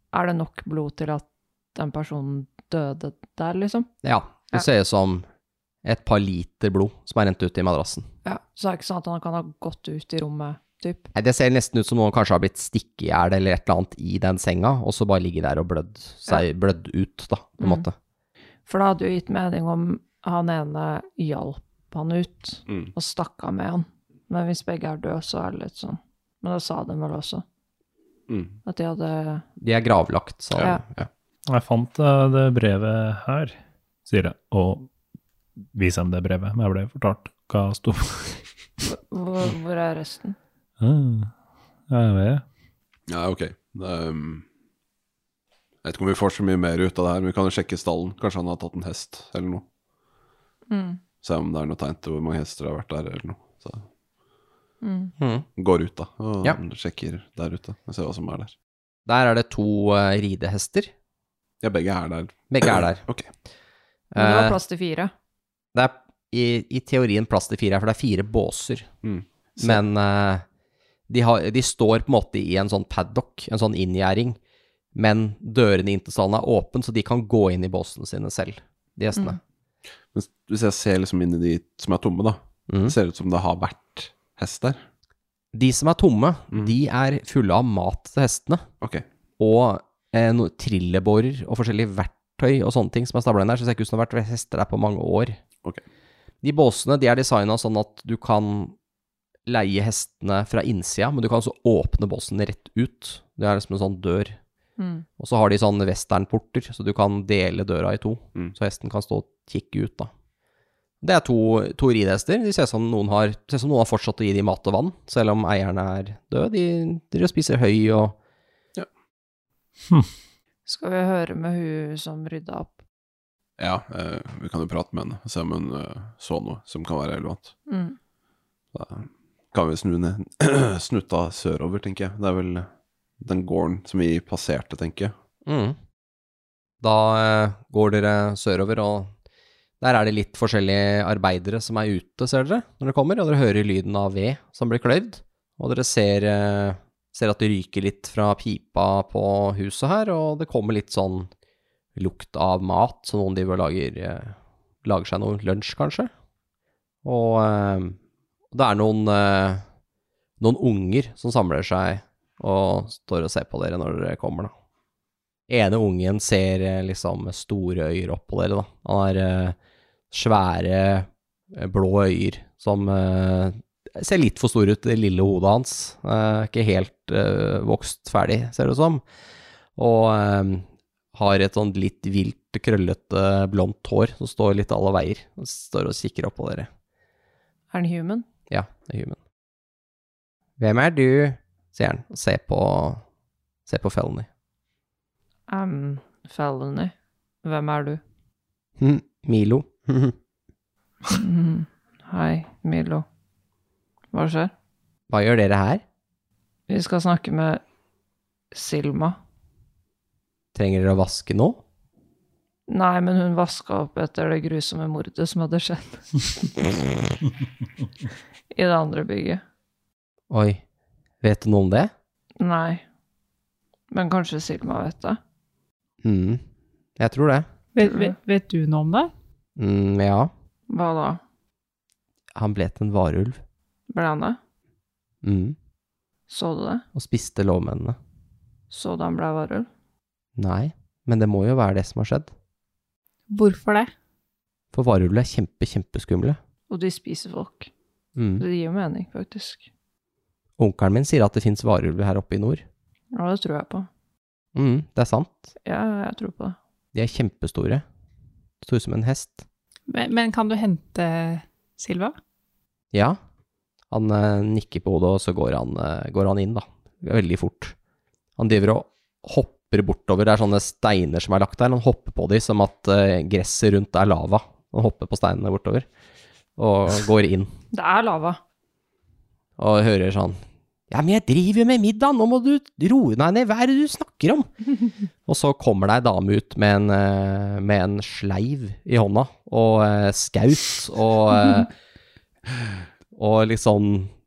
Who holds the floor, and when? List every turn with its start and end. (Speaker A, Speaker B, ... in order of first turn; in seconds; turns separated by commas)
Speaker A: 0.1-3.9, Speaker B: 4.0-5.2, Speaker B: 5.8-8.1, Speaker A: 8.2-11.1, Speaker B: 11.1-17.9, Speaker A: 17.6-17.9, Speaker A: 18.7-27.4, Speaker C: 28.3-28.6, Speaker A: 28.6-29.4, Speaker B: 29.6-31.0, Speaker C: 30.5-31.1, Speaker D: 31.5-33.5, Speaker D: 34.0-34.9, Speaker D: 35.7-38.5, Speaker A: 38.9-40.4, Speaker D: 40.8-41.3, Speaker D: 41.9-42.4, Speaker C: 43.1-44.4, Speaker C: 45.8-49.6, Speaker A: 50.7-51.0, Speaker C: 51.2-53.9, Speaker A: 54.8-55.1, Speaker B: 55.2-55.5, Speaker C: 55.6-58.5, Speaker B: 59.0-60.9, Speaker C: 61.6-63.3, Speaker B: 62.5-63.0, Speaker B: 64.1-64.6, Speaker A: 64.2-65.1, Speaker B: 65.7-68.9, Speaker C: 69.0-69.8, Speaker B: 69.6-70.4, Speaker B: 71.1-74.4, Speaker B: 74.9-79.4, Speaker C: 80.1-84.8, Speaker B: 82.7-82.9, Speaker B: 85.5-88.7, Speaker B: 89.4-95.4, Speaker B: 96.4-98.7, Speaker B: 99.5-104.4, Speaker A: 104.8-105.0, Speaker B: 105.2-110.1, Speaker B: 111.0-118.2, Speaker A: 120.7-122.8, Speaker C: 123.6-127.5, Speaker A: 127.7-128.0, Speaker C: 128.7-135.1, Speaker B: 135.4-135.8, Speaker B: 136.8-139.1, Speaker B: 139.8-151.3, Speaker B: 151.9-156.1, Speaker B: 157.0-158.0, Speaker B: 158.5-159.6, Speaker B: 160.4-164.5, Speaker B: 165.5-169.6, Speaker B: 170.1-179.0, Speaker B: 179.8-186.7, Speaker A: 187.7-188.3, Speaker B: 188.5-189.2, Speaker B: 190.6-193.0, Speaker B: 193.7-194.3, Speaker A: 195.5-198.0, Speaker B: 198.8-200.2, Speaker A: 201.1-203.1, Speaker A: 204.1-204.5, Speaker B: 205.1-205.8, Speaker A: 206.7-207.6, Speaker A: 208.5-209.2, Speaker B: 210.5-211.6, Speaker A: 212.7-216.1, Speaker A: 218.5-219.4, Speaker B: 220.3-220.6, Speaker B: 221.2-221.9, Speaker A: 222.4-222.8, Speaker A: 223.9-225.2, Speaker B: 226.0-226.4, Speaker B: 227.0-227.4, Speaker E: 227.7-229.1, Speaker A: 227.8-228.1, Speaker B: 229.6-230.3, Speaker A: 230.7-231.2, Speaker B: 232.3-233.4, Speaker A: 233.9-234.4, Speaker B: 235.2-235.6, Speaker A: 236.3-236.8, Speaker B: 236.9-237.9, Speaker A: 238.7-239.7, Speaker B: 240.3-242.3, Speaker E: 243.3-243.9, Speaker B: 244.7-246.4, Speaker A: 246.7-247.7, Speaker B: 248.2-248.4, Speaker A: 248.4-249.6, Speaker B: 250.6-252.6, Speaker A: 253.1-253.9, Speaker B: 254.5-255.4, Speaker A: 255.6-256.6, Speaker B: 256.9-257.8, Speaker B: 258.6-259.4, Speaker E: 259.9-262.1, Speaker B: 262.9-263.2, Speaker B: 263.9-267.8, Speaker B: 268.4-275.9, Speaker B: 276.6-277.5, Speaker A: 277.7-278.4, Speaker B: 279.6-284.5, Speaker B: 285.2-291.7, Speaker B: 293.1-294.1